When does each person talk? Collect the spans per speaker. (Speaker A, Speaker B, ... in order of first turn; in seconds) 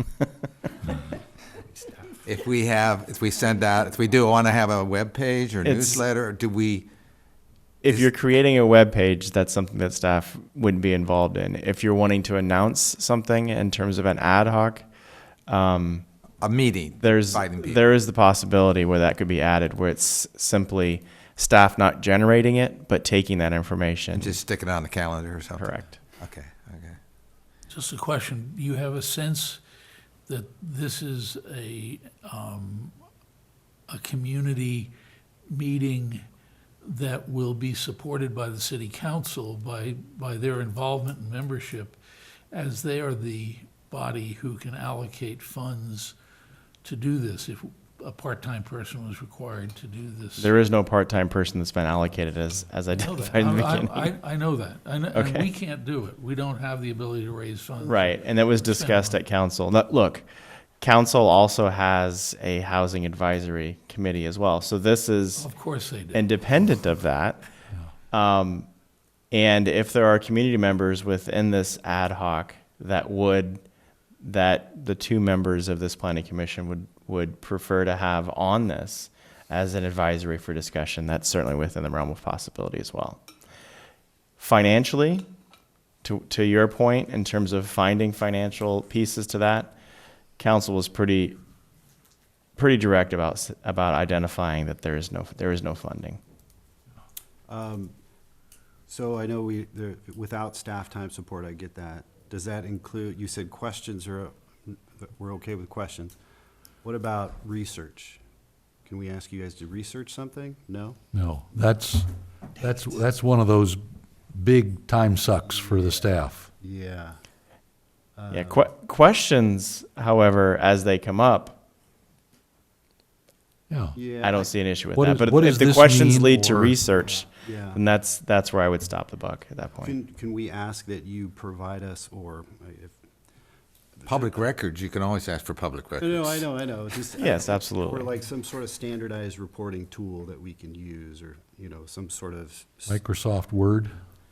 Speaker A: 1.6-2.2, 97.5-97.9, 98.9-106.1, 106.8-108.2, 108.8-111.0, 115.5-116.0, 116.6-117.2, 118.2-118.7, 123.9-124.5, 127.0-127.8, 129.8-133.0, 134.0-134.4, 136.0-143.0
Speaker B: 2.2-6.9, 16.4-17.8, 24.1-27.0, 134.1-136.4
Speaker C: 5.6-6.0, 7.8-14.8, 15.5-16.0, 17.0-24.4, 25.6-26.0, 50.4-54.1, 55.1-55.5, 57.8-60.3, 60.8-65.5, 66.1-67.4, 68.1-68.7, 69.3-73.6, 74.2-83.2, 84.4-85.2, 86.0-89.7, 90.4-91.4, 92.6-96.2, 118.3-121.5, 124.2-129.9, 137.2-138.1
Speaker D: 27.7-29.6, 30.3-32.9, 33.9-34.9, 35.5-36.2, 36.8-42.0, 42.5-46.1, 46.8-50.5, 52.9-59.2, 65.3-66.2
Speaker E: 111.1-113.8, 114.3-116.5, 123.7-124.0, 124.9-126.8, 142.9-143.9